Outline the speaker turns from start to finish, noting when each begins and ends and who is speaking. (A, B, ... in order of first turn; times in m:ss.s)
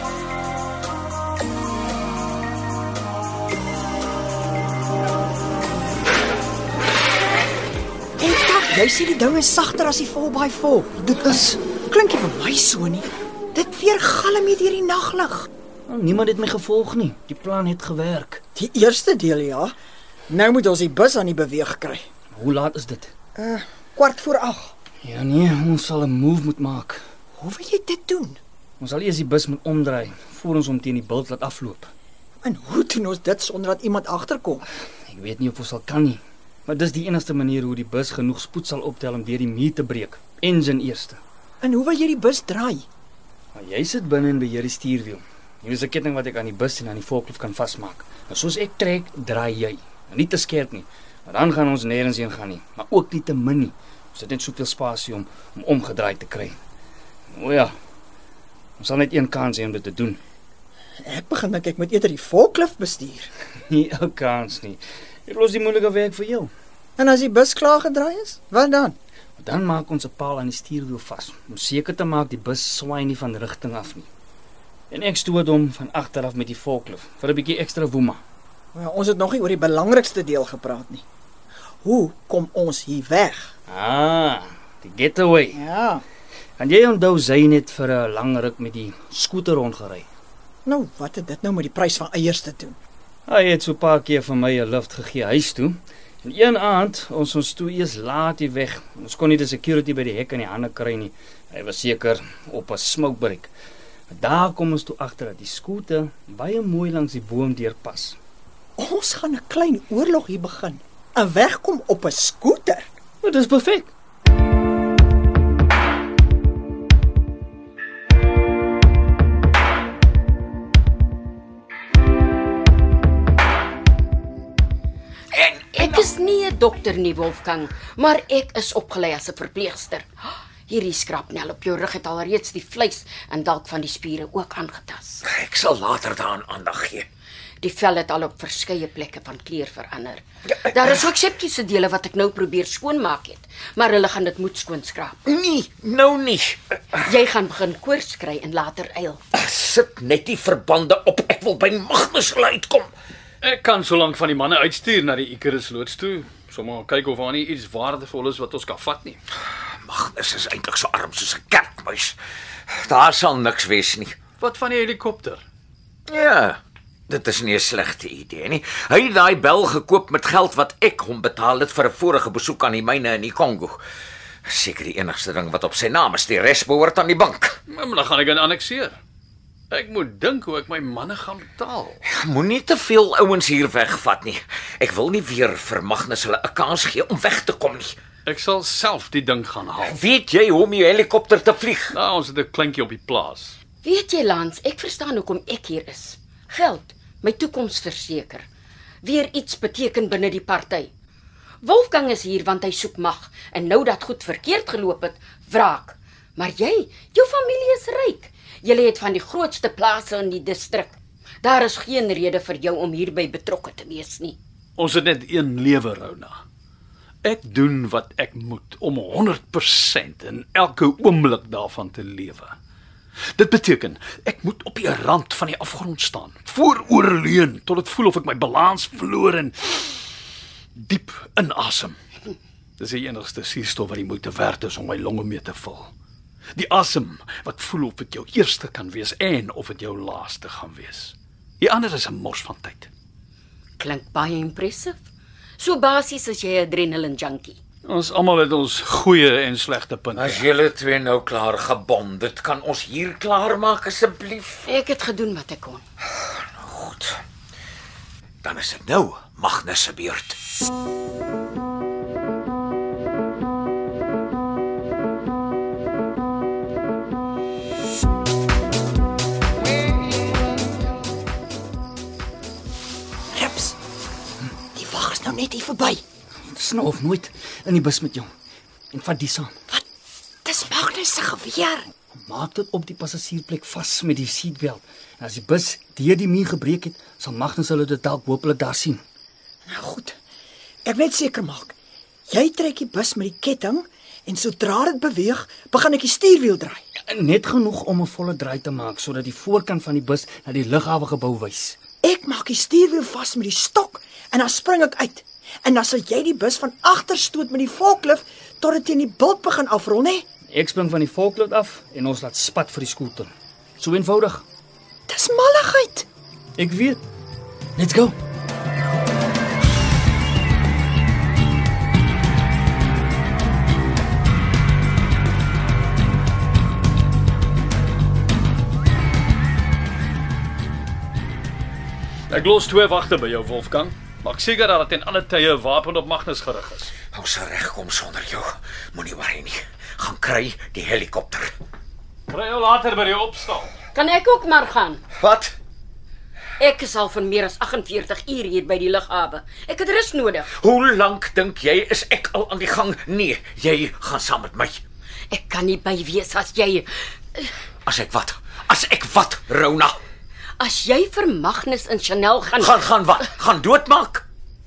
0:08.2-0:15.5 A
0:15.9-0:18.4 B
0:18.5-0:19.7 A
0:20.3-0:22.0 A
0:22.4-0:23.1 B
0:23.4-0:24.7 A
0:25.0-0:27.0 B
0:27.4-0:28.4 A
0:28.8-0:31.9 B
0:32.4-0:34.6 A
0:35.1-0:41.2 B
0:41.6-0:42.8 A
0:43.5-0:56.6 B
0:57.3-0:57.7 B
0:58.8-1:00.2 B
1:01.0-1:03.3 A
1:03.7-1:06.5 B
1:07.0-1:09.0 A
1:09.4-1:14.1 B
1:14.9-1:18.2 B
1:18.7-1:21.0 A
1:21.8-1:23.5 A
1:23.7-1:25.6 B
1:25.5-1:26.0 A
1:26.6-1:30.1 B
1:30.6-1:32.8 A
1:33.3-1:43.5 B
1:44.1-1:48.2 B
1:48.8-1:52.9 A
1:53.2-1:53.9 B
2:05.3-2:06.1 C
2:05.7-2:10.1 D
2:10.7-2:15.2 D
2:15.2-2:17.1 C
2:17.6-2:25.2 D
2:20.5-2:21.0 C
2:25.2-2:26.8 C
2:27.0-2:29.2 D
2:29.3-2:32.9 C
2:33.4-2:39.2 E
2:39.8-2:42.2 C
2:42.7-2:44.2 C
2:44.4-2:45.4 E
2:46.1-2:53.8 C
2:54.5-2:57.6 C
2:57.7-2:59.0 E
2:59.7-3:02.0 E
3:02.1-3:08.0 C
3:08.2-3:10.0 E
3:09.8-3:12.0 C
3:11.9-3:13.6 E
3:13.8-3:18.4 D
3:19.0-3:20.9 D
3:21.6-3:34.4 D
3:34.8-3:36.4 E
3:37.2-3:42.5 E
3:43.3-3:50.0 E
3:50.8-3:52.0 E
3:52.8-3:55.9 E
3:56.5-4:02.9 E
4:03.8-4:05.0 D
4:05.6-4:07.6 D
4:07.8-4:10.5 E
4:10.1-4:14.7 C
4:14.6-4:15.8 D
4:16.2-4:17.2 C
4:18.4-4:20.4 C
4:33.3-4:33.8 A
4:34.7-4:36.0 A
4:36.4-4:38.3 B
4:38.9-4:39.5 B
4:40.4-4:41.9 A
4:42.2-4:49.0 B
4:49.6-4:50.2 A
4:50.8-4:51.7 A
4:52.3-4:56.8 A
4:57.1-5:01.8 B
5:02.0-5:10.2 A
5:10.5-5:14.4 B
5:15.1-5:16.1 A
5:16.6-5:17.0 B
5:17.8-5:18.1 B
5:32.3-5:36.9 E
5:37.1-5:41.5 C
5:42.3-5:43.7 E
5:43.9-5:45.0 D
5:45.2-5:45.5 C
5:46.6-5:50.5 D
5:50.5-5:54.8 C
5:55.3-5:57.5 D
5:57.8-6:00.0 C
6:00.6-6:02.8 D
6:02.6-6:04.2 C